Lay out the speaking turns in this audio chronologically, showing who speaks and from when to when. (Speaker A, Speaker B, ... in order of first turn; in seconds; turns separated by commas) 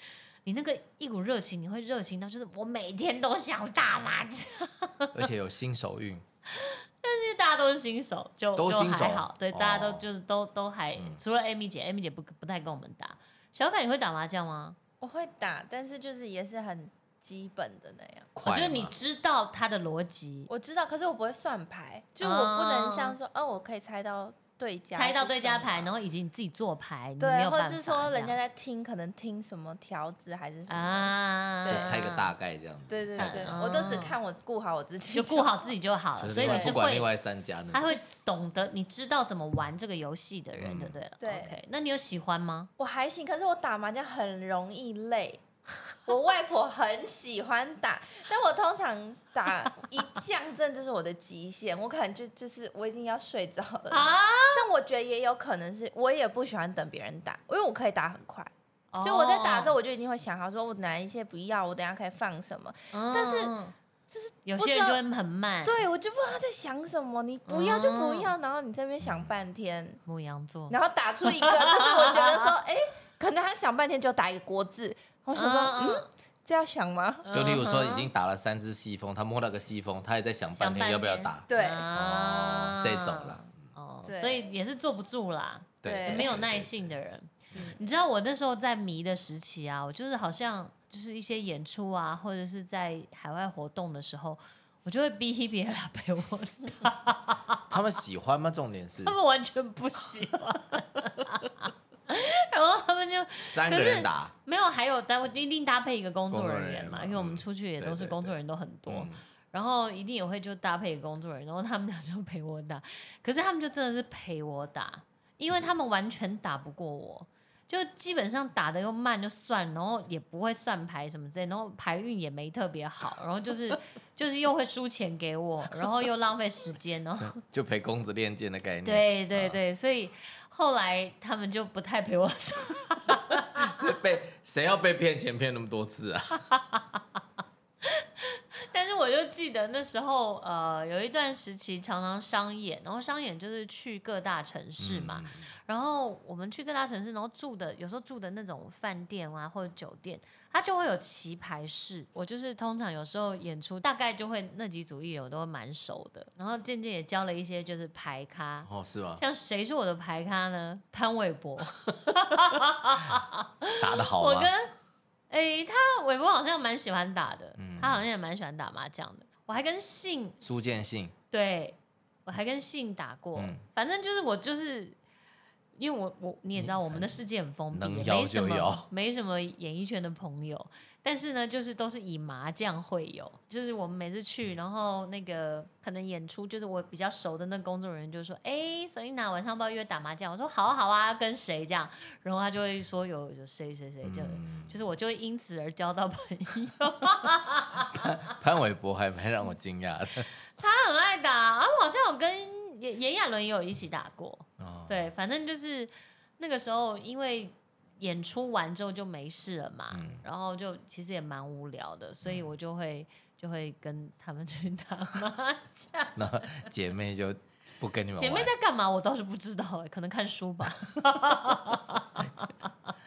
Speaker A: 0.4-5.2, Speaker B: 5.1-6.2, Speaker A: 6.5-14.8, Speaker B: 8.6-10.1, Speaker B: 10.9-11.2, Speaker C: 15.0-18.3, Speaker B: 18.3-19.0, Speaker A: 18.4-20.5, Speaker C: 20.5-25.9, Speaker A: 22.2-23.1, Speaker A: 24.9-28.4, Speaker C: 27.2-32.0, Speaker A: 30.7-32.3, Speaker B: 31.6-33.7, Speaker C: 32.9-35.7, Speaker A: 33.1-34.2, Speaker A: 35.1-37.1, Speaker B: 36.2-38.0, Speaker C: 36.3-36.8, Speaker A: 37.7-42.7, Speaker B: 40.6-41.0, Speaker C: 41.2-41.6, Speaker C: 42.8-45.4, Speaker C: 46.0-58.5, Speaker A: 53.9-54.6, Speaker A: 58.9-59.7, Speaker C: 59.0-63.5, Speaker A: 62.9-63.7, Speaker C: 64.1-65.0, Speaker A: 64.4-65.8, Speaker C: 65.6-70.0, Speaker A: 67.5-68.3, Speaker B: 69.0-69.3, Speaker A: 70.0-72.5, Speaker C: 70.7-77.2, Speaker A: 75.3-76.0, Speaker A: 77.2-78.1, Speaker B: 77.3-83.7, Speaker A: 80.6-97.6, Speaker C: 81.5-81.9, Speaker C: 84.0-84.4, Speaker B: 85.8-86.9, Speaker C: 85.8-86.3, Speaker B: 97.7-99.2, Speaker A: 99.0-127.4, Speaker B: 103.4-104.3, Speaker B: 106.3-108.3, Speaker B: 108.9-109.2, Speaker B: 127.2-129.6, Speaker A: 128.8-133.8, Speaker B: 133.3-136.5, Speaker A: 136.5-136.8, Speaker A: 137.8-164.7, Speaker B: 144.8-145.5, Speaker B: 158.6-159.2, Speaker B: 163.8-164.5, Speaker A: 165.3-170.6, Speaker B: 167.6-168.0, Speaker B: 170.4-171.1, Speaker A: 171.3-175.0, Speaker B: 173.3-173.6, Speaker A: 175.7-198.2, Speaker B: 176.6-178.9, Speaker B: 194.0-194.7, Speaker B: 197.9-200.3, Speaker A: 200.6-216.6, Speaker B: 204.6-205.1, Speaker B: 209.9-210.2, Speaker B: 212.2-212.5, Speaker B: 216.2-218.5, Speaker A: 218.2-222.5